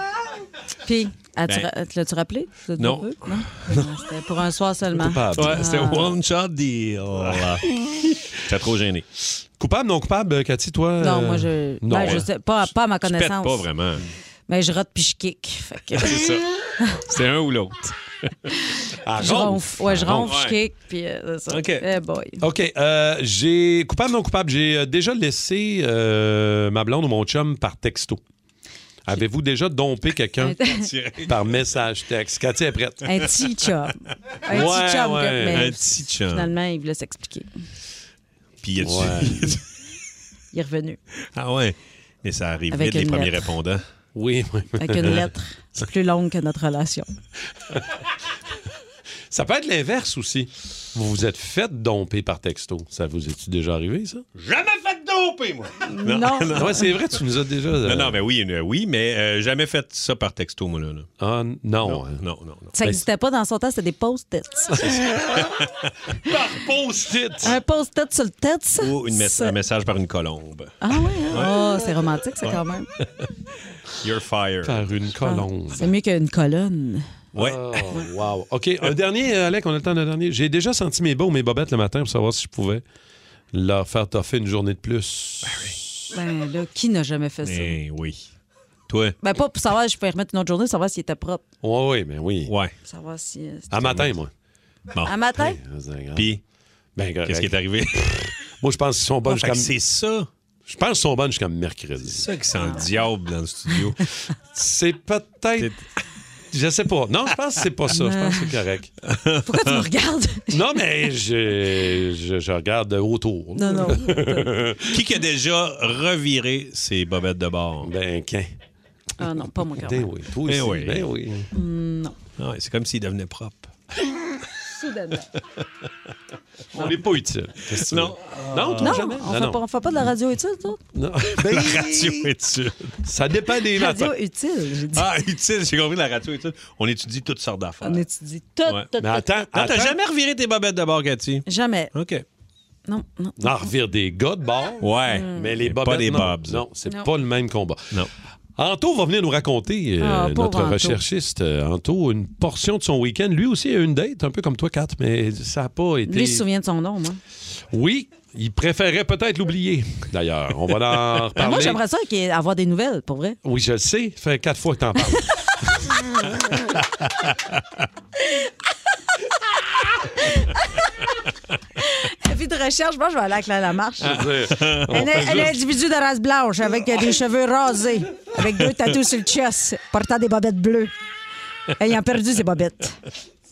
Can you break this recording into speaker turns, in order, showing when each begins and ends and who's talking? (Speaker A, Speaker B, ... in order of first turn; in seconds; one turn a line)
Speaker A: 0.8-6.1
Speaker B: 2.8-3.8
Speaker C: 4.9-5.6
Speaker B: 5.3-7.8
Speaker B: 8.4-9.0
Speaker C: 9.6-12.3
Speaker A: 11.0-13.7
Speaker B: 13.0-14.0
Speaker A: 14.5-16.3
Speaker B: 16.0-16.4
Speaker B: 17.0-17.9
Speaker A: 18.6-22.4
Speaker C: 19.0-20.3
Speaker B: 19.9-20.6
Speaker B: 21.5-21.8
Speaker C: 22.4-28.2
Speaker C: 29.1-30.6
Speaker A: 30.4-30.9
Speaker B: 30.8-31.4
Speaker C: 31.2-33.1
Speaker A: 33.1-37.5
Speaker C: 34.5-35.6
Speaker B: 35.5-36.5
Speaker B: 38.6-39.6
Speaker C: 38.8-39.5
Speaker A: 40.5-41.0
Speaker B: 41.3-43.8
Speaker A: 42.7-43.5
Speaker C: 44.1-45.2
Speaker A: 44.8-47.1
Speaker C: 49.3-54.2
Speaker B: 54.4-56.9
Speaker A: 55.9-56.8
Speaker C: 56.5-58.2
Speaker B: 57.8-61.1
Speaker C: 61.2-62.2
Speaker B: 61.8-62.9
Speaker A: 62.7-64.9
Speaker C: 64.8-65.6
Speaker C: 66.2-67.5
Speaker A: 67.4-69.5
Speaker B: 68.8-70.7
Speaker A: 70.8-72.9
Speaker B: 71.2-71.5
Speaker B: 74.0-74.8
Speaker C: 74.6-75.9
Speaker A: 75.2-77.1
Speaker C: 77.3-82.8
Speaker B: 77.3-77.9
Speaker C: 83.5-85.7
Speaker B: 85.5-85.8
Speaker A: 86.1-87.8
Speaker B: 87.4-88.3
Speaker B: 88.9-89.1
Speaker A: 89.2-91.4
Speaker C: 91.6-92.5
Speaker B: 92.5-92.7
Speaker A: 92.8-93.7
Speaker C: 93.7-94.3
Speaker B: 93.8-94.1
Speaker A: 95.0-95.6
Speaker C: 95.4-96.3
Speaker B: 96.1-96.4
Speaker C: 97.0-97.6
Speaker B: 97.2-98.3
Speaker C: 98.1-99.7
Speaker B: 99.3-100.3
Speaker C: 100.7-102.2
Speaker B: 102.1-104.0
Speaker A: 102.6-103.0
Speaker C: 104.5-105.7
Speaker C: 106.5-108.9
Speaker A: 107.9-108.5
Speaker B: 109.0-109.8
Speaker A: 109.5-110.6
Speaker C: 110.5-115.0
Speaker A: 113.5-114.5
Speaker B: 114.9-117.9
Speaker C: 117.8-118.5
Speaker A: 119.2-120.1
Speaker C: 119.8-121.5
Speaker B: 120.5-121.1
Speaker A: 121.5-122.1
Speaker B: 122.4-123.7
Speaker A: 124.7-125.2
Speaker C: 126.7-129.6
Speaker B: 127.7-128.9
Speaker A: 128.8-130.8
Speaker C: 130.9-132.3
Speaker B: 131.4-132.9
Speaker C: 133.0-134.1
Speaker A: 133.7-135.1
Speaker B: 134.9-138.0
Speaker A: 137.8-139.3
Speaker C: 139.0-140.0
Speaker B: 139.5-142.2
Speaker A: 141.4-141.9
Speaker A: 142.9-143.4
Speaker C: 143.4-148.0
Speaker B: 144.8-146.6
Speaker A: 145.1-145.4
Speaker C: 148.6-156.4
Speaker A: 150.0-151.0
Speaker A: 156.1-157.2
Speaker C: 157.7-161.8
Speaker A: 161.4-163.4
Speaker C: 163.4-165.2
Speaker A: 170.2-170.8
Speaker A: 171.8-174.2
Speaker C: 174.0-175.5
Speaker B: 174.1-175.5
Speaker A: 174.9-180.9
Speaker A: 181.8-182.9